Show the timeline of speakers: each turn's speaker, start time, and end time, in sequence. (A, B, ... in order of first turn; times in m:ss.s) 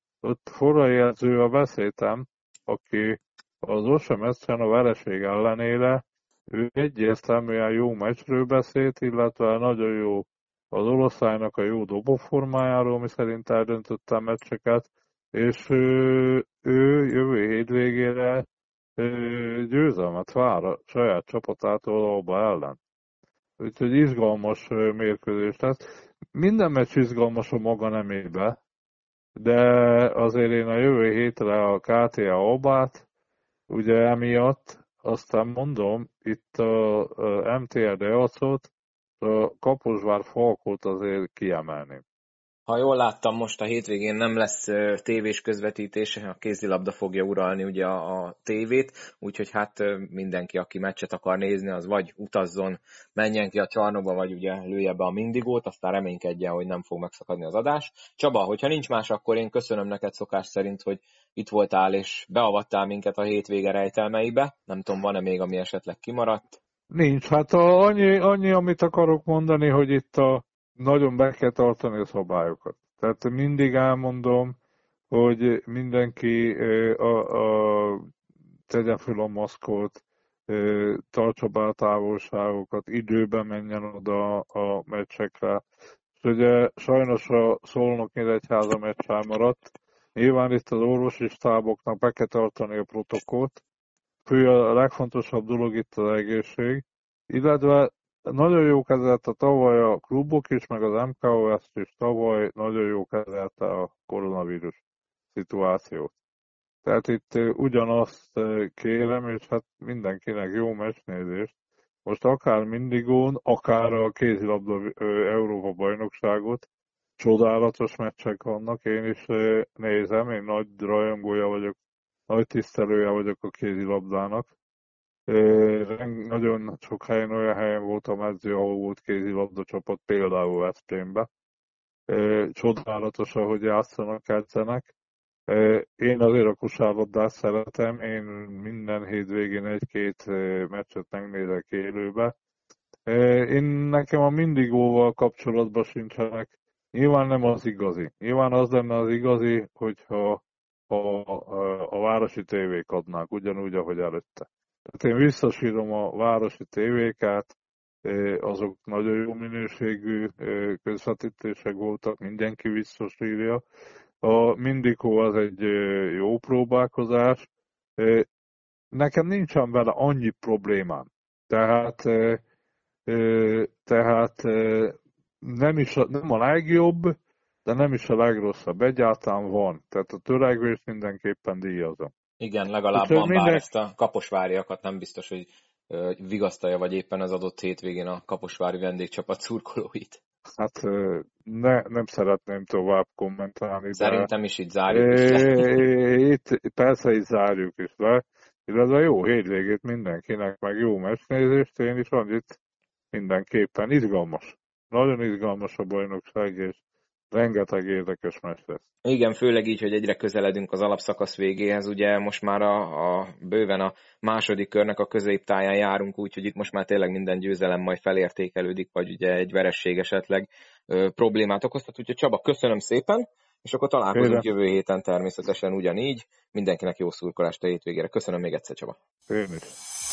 0:00.2-0:18.4 A
0:19.0-0:22.8 A
0:23.6-0:25.8 A
0:26.3-0:28.6 A
0:29.4-0:33.0 A
0:33.7-0:38.7 A
0:39.2-0:42.0 A
0:42.7-1:06.6 B
1:06.9-1:14.5 A
1:15.1-1:18.0 A
1:18.7-1:25.6 A
1:26.2-1:33.6 A
1:34.2-1:44.8 A
1:45.3-1:46.1 A
1:46.8-1:51.5 A
1:52.0-1:56.6 A
1:57.2-2:01.8 A
2:02.3-2:04.5 A
2:05.3-2:11.3 A
2:12.1-2:14.9 A
2:15.5-2:22.3 A
2:23.1-2:37.5 A
2:38.0-2:43.6 A
2:44.2-2:47.4 A
2:48.0-2:48.2 A
2:48.9-2:52.4 A
2:53.1-3:02.1 A
3:02.4-3:10.2 B
3:02.9-3:03.6 A
3:10.6-3:14.3 A
3:13.9-3:15.8 B
3:14.9-3:22.6 A
3:23.1-3:26.8 A
3:27.3-3:28.8 A
3:29.0-3:49.0 B
3:44.1-3:44.5 A
3:49.3-3:49.7 A